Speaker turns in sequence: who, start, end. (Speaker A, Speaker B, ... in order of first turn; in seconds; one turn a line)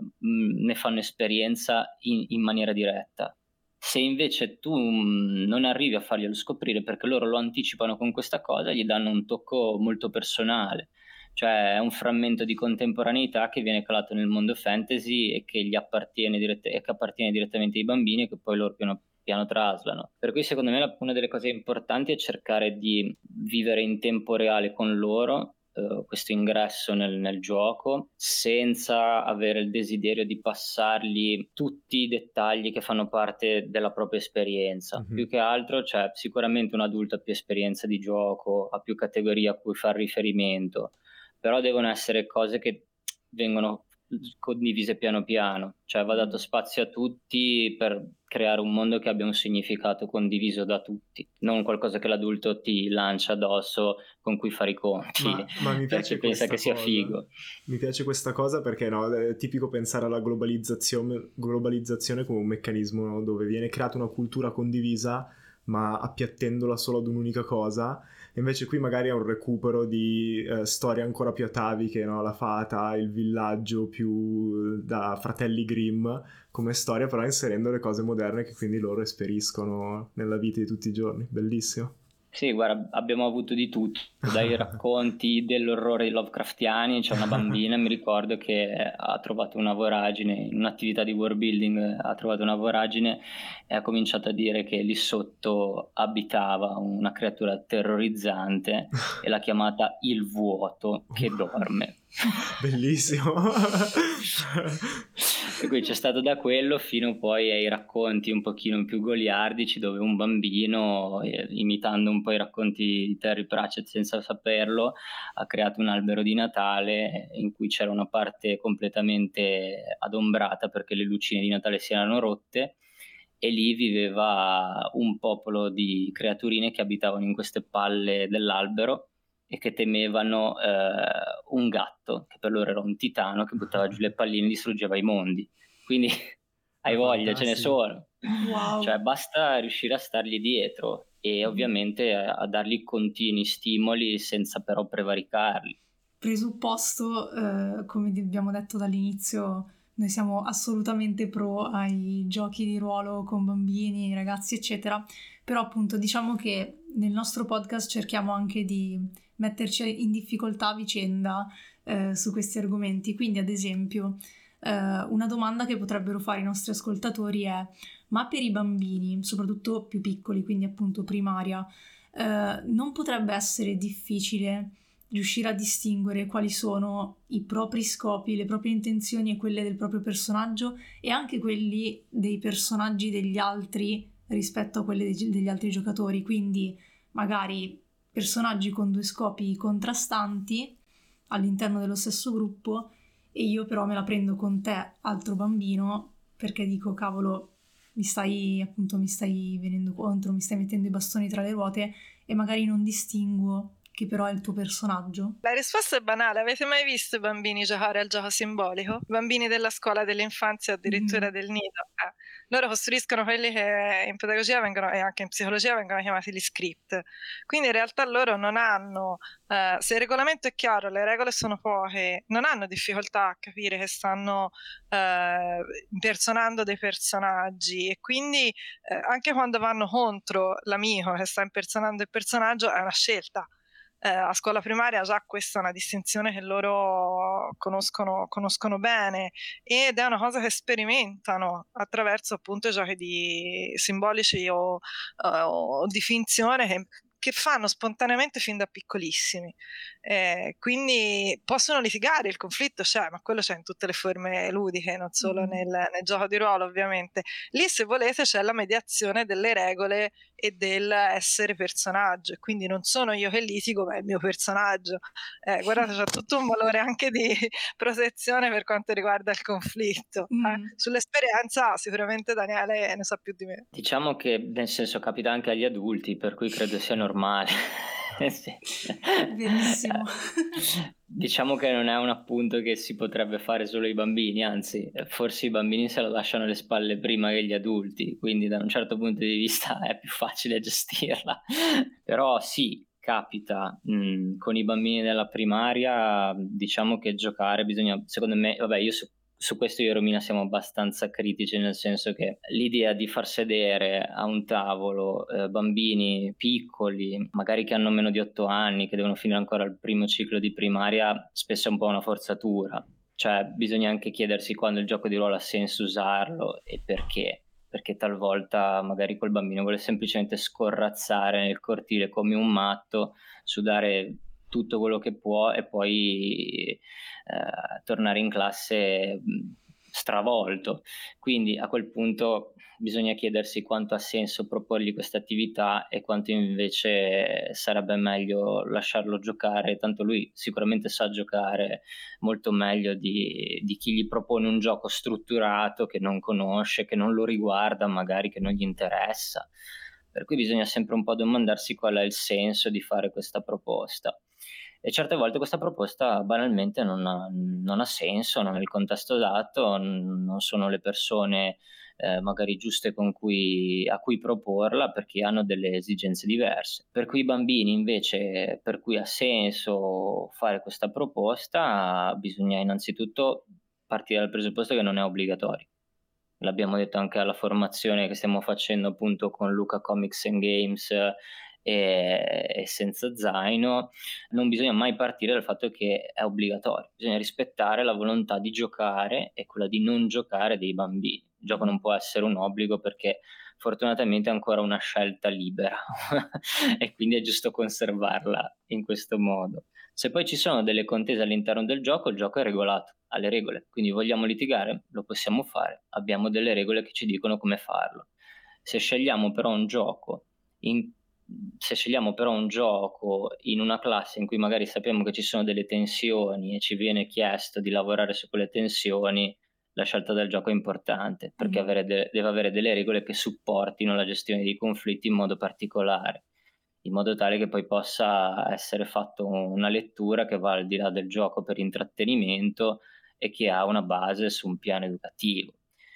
Speaker A: 0.2-57.3
Speaker B: 35.0-35.2
Speaker C: 46.1-46.4
Speaker B: 55.2-82.0
Speaker A: 82.3-102.4
Speaker B: 102.5-105.0
Speaker A: 105.2-122.8
Speaker A: 123.4-136.2
Speaker A: 136.8-145.8
Speaker B: 136.9-137.8
Speaker C: 138.4-138.9
Speaker C: 146.2-190.8
Speaker C: 191.3-205.4
Speaker D: 205.4-233.5
Speaker C: 210.9-211.3
Speaker D: 234.0-273.6
Speaker C: 255.2-255.6
Speaker C: 270.3-270.7
Speaker A: 273.7-279.9
Speaker C: 279.2-280.8
Speaker A: 280.6-349.5
Speaker A: 350.1-354.2
Speaker A: 354.8-375.6
Speaker A: 376.4-408.1
Speaker A: 408.6-426.2
Speaker C: 421.4-421.6
Speaker A: 426.8-435.6